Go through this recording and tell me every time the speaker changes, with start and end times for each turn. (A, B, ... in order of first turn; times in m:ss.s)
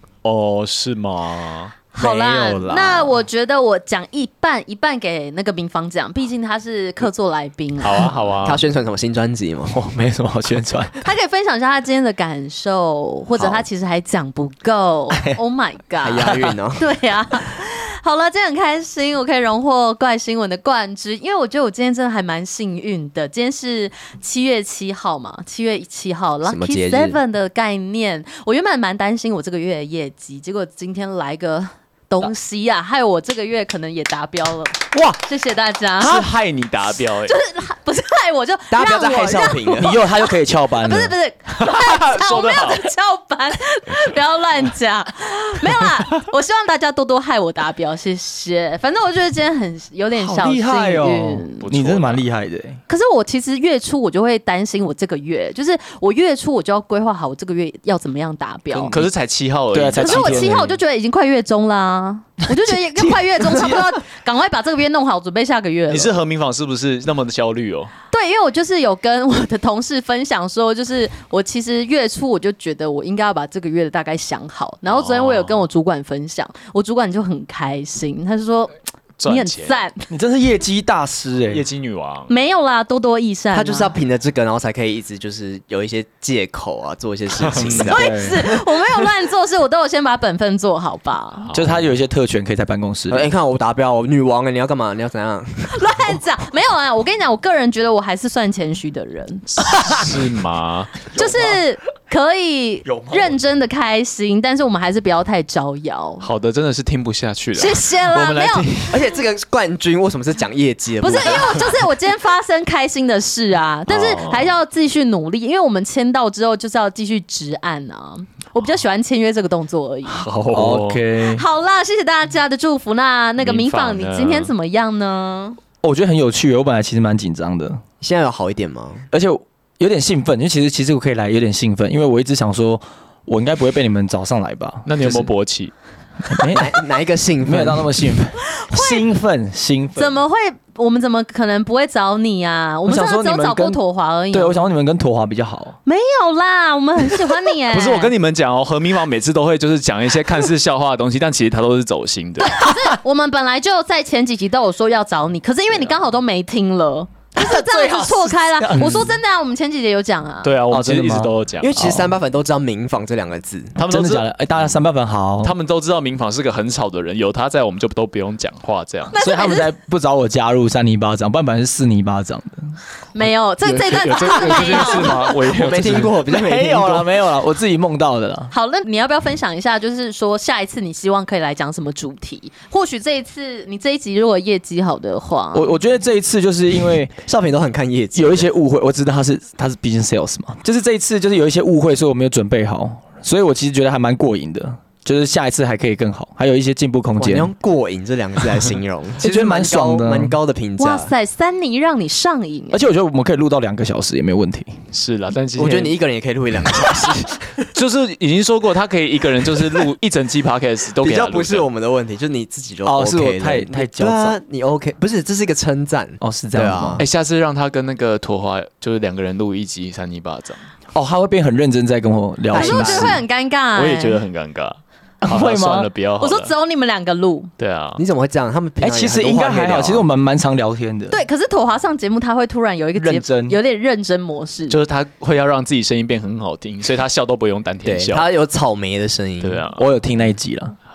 0:00.2-0:01.8 A
0:01.9-0:08.3 B
0:02.0-0:03.1 C
0:07.8-0:08.6 A
0:08.4-0:09.7 D
0:09.7-0:11.0 C
0:11.0-0:36.3 B
0:13.4-0:13.6 D
0:16.0-0:16.8 D
0:26.4-0:27.2 D
0:36.0-0:37.4 A
0:37.1-0:51.6 B
0:38.7-0:40.0 D
0:39.7-0:41.1 C
0:41.5-0:42.9 A
0:50.1-0:52.8 C
0:51.6-0:52.2 A
0:52.9-0:59.0 B
0:58.7-0:59.1 C
0:58.9-1:00.6 A
0:59.7-1:00.8 C
1:00.0-1:06.1 B
1:02.5-1:03.8 C
1:05.9-1:07.9 A
1:08.1-1:20.0 B
1:14.9-1:15.6 A
1:19.2-1:19.8 A
1:20.1-1:21.6 C
1:21.5-1:22.3 A
1:22.3-1:23.9 B
1:23.5-1:28.5 D
1:27.3-1:27.9 A
1:27.7-1:28.4 C
1:27.9-1:31.5 B
1:31.4-1:31.9 A
1:31.5-1:33.3 C
1:33.1-1:35.9 D
1:35.7-1:40.1 B
1:39.7-1:41.0 A
1:41.1-1:41.6 C
1:41.1-1:46.3 B
1:42.8-1:43.4 C
1:46.2-1:49.0 A
1:47.6-1:48.9 B
1:48.9-1:51.7 D
1:51.0-2:00.2 B
1:53.9-1:54.5 A
2:00.1-2:01.0 A
2:00.5-2:01.4 C
2:01.2-2:05.6 B
2:03.4-2:04.5 A
2:05.8-2:07.8 C
2:08.0-2:09.0 D
2:09.1-2:15.3 C
2:14.8-2:15.7 A
2:16.2-2:16.8 C
2:16.5-2:18.1 D
2:17.4-2:20.2 C
2:18.5-2:19.0 B
2:20.0-2:24.6 B
2:22.8-2:23.8 C
2:24.3-2:25.8 C
2:25.8-2:28.1 B
2:27.7-2:32.7 A
2:32.4-2:40.5 B
2:37.4-2:39.2 C
2:40.4-2:41.8 A
2:40.7-2:42.2 C
2:41.6-2:43.8 D
2:43.8-2:44.8 A
2:43.9-2:45.5 C
2:45.4-2:49.1 A
2:49.1-2:49.7 B
2:49.2-2:52.8 C
2:53.1-2:55.3 B
2:53.6-2:56.1 A
2:55.5-2:57.1 D
2:55.8-2:58.5 C
2:58.5-3:05.7 B
3:05.5-3:07.2 C
3:07.2-3:08.5 D
3:08.1-3:17.5 C
3:17.2-3:21.1 D
3:19.2-3:20.4 C
3:20.8-3:22.8 B
3:22.7-3:24.8 C
3:24.9-3:25.9 A
3:25.6-3:27.5 D
3:27.7-3:31.7 A
3:31.0-3:37.0 D
3:32.8-3:34.4 C
3:36.2-3:37.0 C
3:37.0-3:40.7 A
3:40.9-3:43.2 C
3:42.5-3:43.2 D
3:42.5-3:44.2 B
3:43.7-3:46.5 A
3:45.2-3:45.9 C
3:46.2-3:47.5 B
3:47.6-3:48.0 A
3:48.0-3:50.0 D
3:48.8-3:51.2 C
3:51.1-3:54.8 B
3:53.0-3:53.6 C
3:54.7-3:58.2 A
3:57.8-3:59.6 D
3:59.4-3:59.8 A
3:59.7-4:00.8 C